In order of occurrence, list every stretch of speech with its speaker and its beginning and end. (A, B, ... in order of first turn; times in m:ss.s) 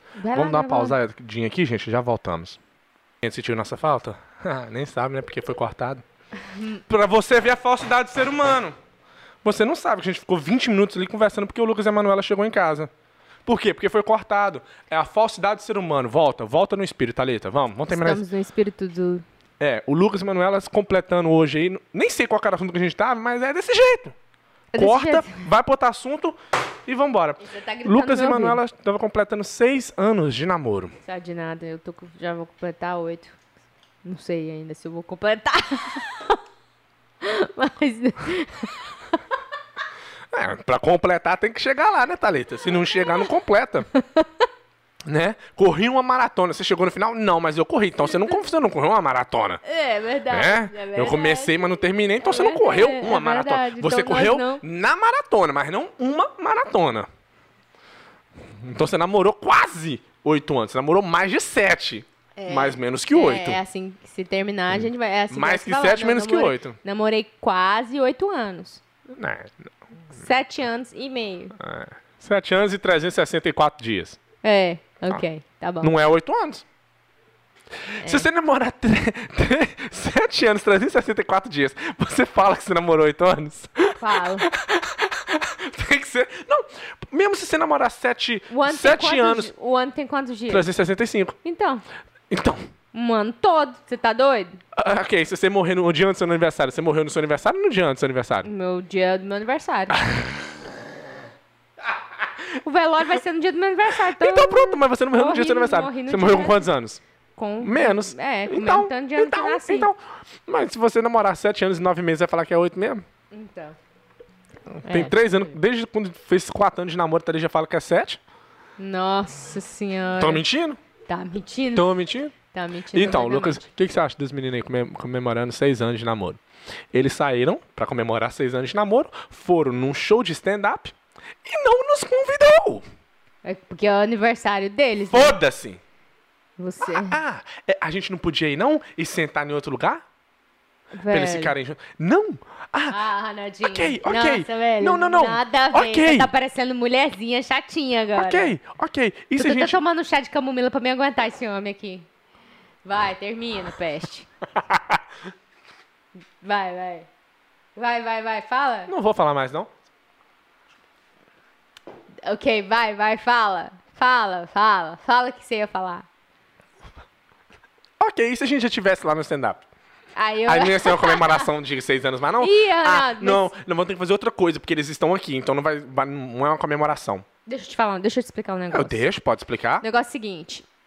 0:00.2-0:01.0 A
0:00.3-0:02.6 B
0:03.2-0:06.0 B
0:06.5-0:06.8 A
0:06.9-0:08.8 B
0:09.4-0:12.9 B
0:13.5-0:18.2 B
0:17.9-0:19.2 A
0:19.6-0:24.2 B
0:24.7-0:25.4 A
0:24.8-0:31.0 B
0:27.4-0:28.6 A
0:31.0-0:33.4 A
0:34.0-0:36.4 A
0:37.2-0:39.2 A
0:40.3-0:43.9 B
0:43.9-0:44.4 A
0:45.1-0:49.6 B
0:48.1-0:48.4 A
0:49.6-0:51.6 A
0:50.3-0:57.1 B
0:52.2-0:54.6 A
0:58.6-1:03.6 B
1:02.4-1:08.8 A
1:04.8-1:06.8 B
1:09.1-1:09.7 B
1:10.1-1:11.6 A
1:11.6-1:14.2 B
1:14.4-1:15.9 A
1:15.8-1:16.6 B
1:17.9-1:29.5 B
1:18.0-1:18.3 A
1:24.0-1:24.5 A
1:28.5-1:30.7 A
1:30.5-1:31.4 B
1:31.4-1:31.8 A
1:32.3-1:32.6 B
1:32.9-1:34.6 A
1:34.8-1:38.5 B
1:38.4-1:40.0 A
1:40.0-1:40.4 B
1:42.6-1:46.7 A
1:44.0-1:47.0 B
1:47.4-1:49.9 A
1:47.6-1:53.0 B
1:53.3-1:53.8 A
1:54.7-1:58.2 B
1:54.8-1:55.2 A
1:58.8-2:00.4 A
2:00.2-2:00.8 B
2:01.1-2:01.9 A
2:01.8-2:02.4 B
2:02.5-2:03.6 A
2:02.9-2:06.4 B
2:06.9-2:12.8 B
2:13.4-2:15.4 A
2:15.1-2:15.8 B
2:16.6-2:17.2 A
2:16.8-2:20.0 B
2:20.9-2:21.6 A
2:21.1-2:23.0 B
2:22.9-2:28.5 A
2:23.6-2:26.3 B
2:28.2-2:29.8 B
2:29.4-2:32.1 A
2:32.8-2:34.3 A
2:34.7-2:35.0 B
2:36.4-2:37.1 A
2:37.8-2:38.9 A
2:38.9-2:39.7 B
2:42.2-2:46.1 A
2:48.0-2:49.6 B
2:50.2-2:51.5 A
2:50.5-2:57.2 B
2:52.4-2:53.5 A
2:57.5-2:59.0 A
2:58.7-2:59.8 B
2:59.8-3:00.7 A